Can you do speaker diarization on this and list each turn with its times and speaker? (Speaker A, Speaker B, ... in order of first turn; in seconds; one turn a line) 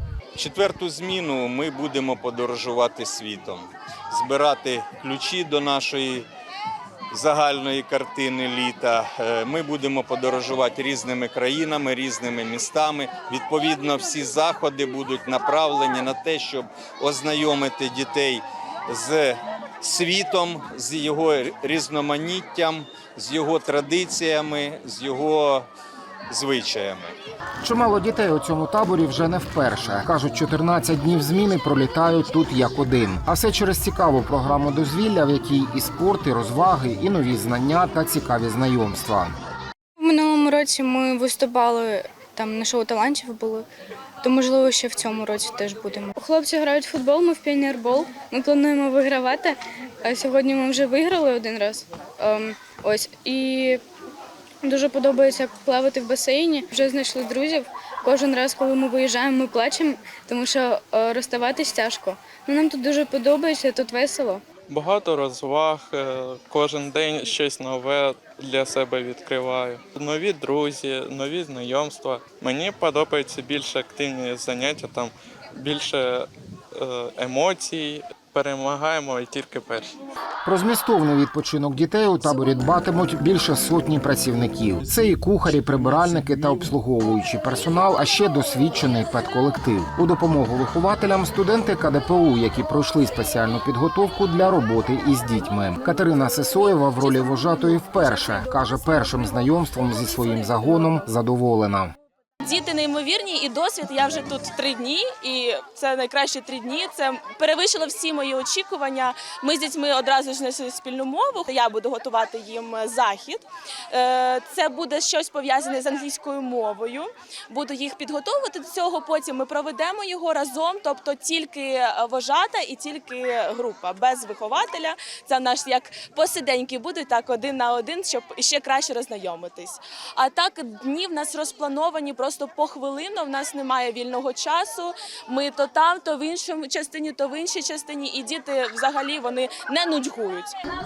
Speaker A: 0.3-6.3
Speaker A: 7.1-25.7
Speaker A: 26.3-27.2
Speaker B: 27.6-39.4
Speaker C: 40.0-43.6
Speaker C: 44.2-53.8
Speaker C: 54.6-64.4
Speaker D: 64.7-79.9
Speaker B: 80.4-101.9
Speaker D: 86.0-86.5
Speaker E: 102.4-140.6